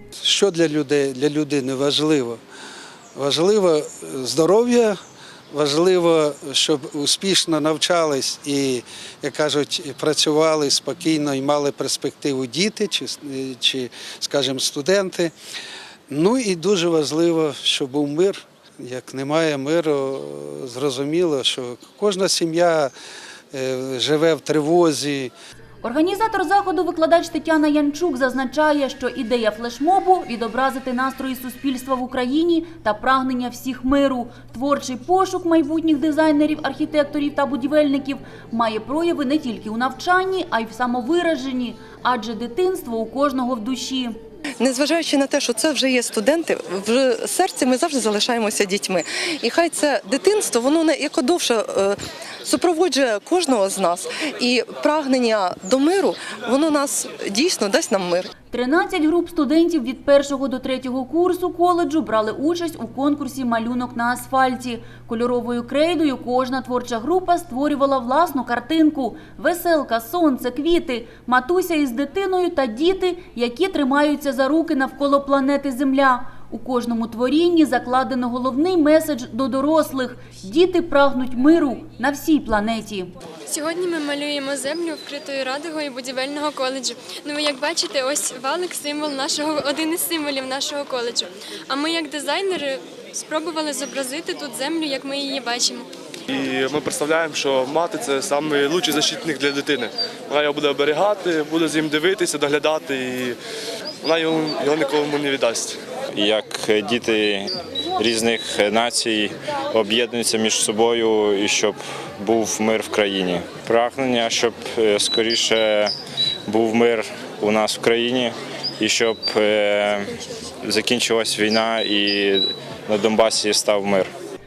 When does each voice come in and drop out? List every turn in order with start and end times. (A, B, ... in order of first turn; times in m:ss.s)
0:00.2-0:02.4 A
0:03.2-0:05.0 A
0:05.5-0:15.3 A
0:16.1-0:22.9 A
0:23.5-0:25.3 A
0:25.8-0:44.1 B
0:44.6-0:58.3 C
0:58.5-1:23.1 B
1:23.5-1:35.9 D
1:36.3-1:43.4 E
1:44.0-1:45.8 E
1:46.1-1:55.9 F
1:56.5-2:04.1 F